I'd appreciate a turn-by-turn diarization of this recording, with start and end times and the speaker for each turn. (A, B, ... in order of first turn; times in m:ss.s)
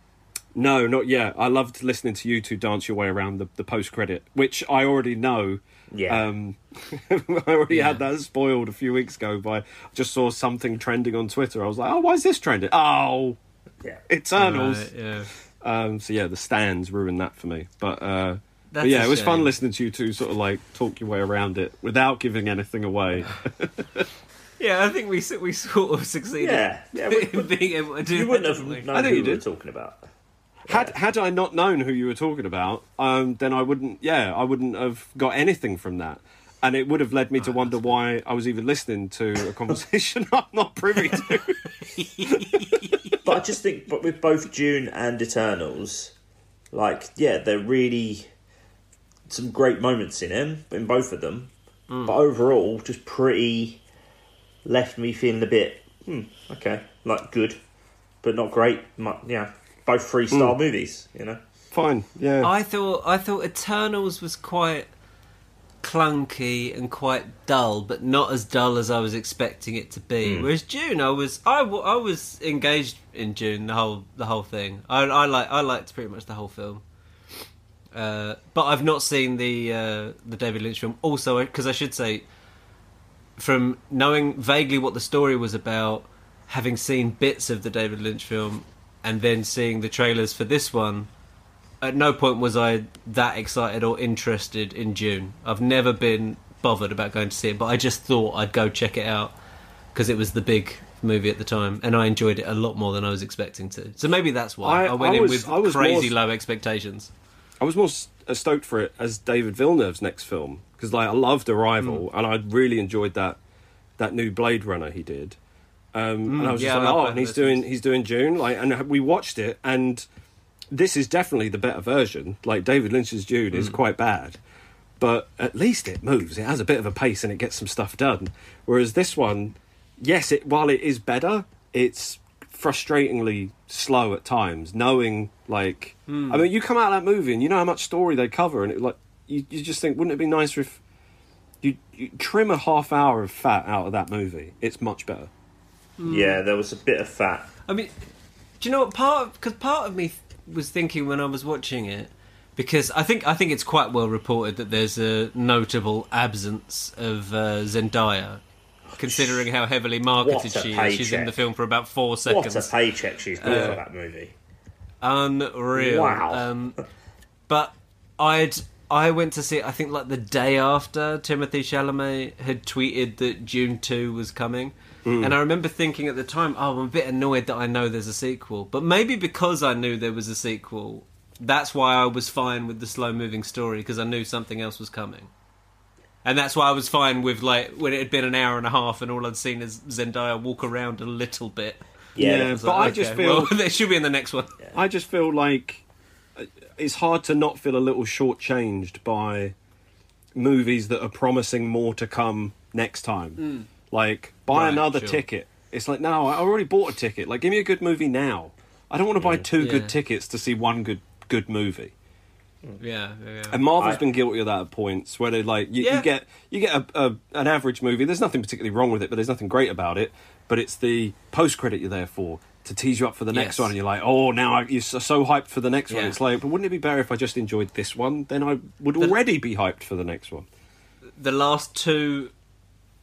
0:00.5-0:13.4 A
0:05.9-0:06.2 B
0:07.7-0:08.0 C
0:14.1-0:14.9 A
0:14.4-0:15.3 C
0:15.6-0:24.1 A
0:18.7-0:19.5 C
0:24.6-0:29.1 C
0:26.4-0:30.0 B
0:28.9-0:29.4 A
0:30.6-0:30.9 B
0:30.7-0:41.8 A
0:37.4-0:37.9 C
0:42.0-0:43.2 C
0:43.2-0:46.1 B
0:46.7-0:48.3 B
0:49.3-0:51.5 B
0:51.9-0:52.1 C
0:52.0-0:53.8 B
0:54.6-0:57.6 B
0:58.2-1:01.4 B
1:00.3-1:00.6 A
1:01.7-1:02.5 A
1:02.4-1:04.9 C
1:05.8-1:16.8 C
1:10.2-1:10.5 B
1:17.9-1:22.3 C
1:23.4-1:31.1 C
1:31.8-1:39.3 C
1:39.9-1:47.1 C
1:44.6-1:46.1 A
1:47.6-1:53.4 A
1:54.0-1:55.4 A
1:55.9-2:00.0 A
1:56.3-1:57.6 C
2:00.7-2:04.4 A
2:05.0-2:20.8 A
2:16.1-2:16.4 C
2:21.6-2:25.3 A
2:26.0-2:26.4 C
2:26.0-2:27.5 B
2:27.7-2:27.9 C
2:28.6-2:38.4 C
2:38.9-2:39.4 B
2:39.0-2:42.7 C
2:40.2-2:41.4 B
2:42.2-2:44.3 B
2:43.4-2:43.8 C
2:43.4-2:43.8 A
2:45.0-2:46.8 C
2:45.7-2:46.4 B
2:47.5-3:05.3 C
2:55.0-2:55.3 A
3:06.2-3:14.6 C
3:12.2-3:12.8 B
3:12.2-3:13.5 A
3:14.7-3:15.8 A
3:16.4-3:19.5 A
3:20.3-3:31.9 A
3:23.4-3:23.7 C
3:24.5-3:25.2 C
3:29.2-3:29.5 B
3:29.6-3:29.9 C
3:32.8-3:33.6 C
3:33.5-3:50.5 A
3:35.8-3:36.1 C
3:43.3-3:43.7 C
3:45.9-3:46.2 C
3:51.2-3:52.3 C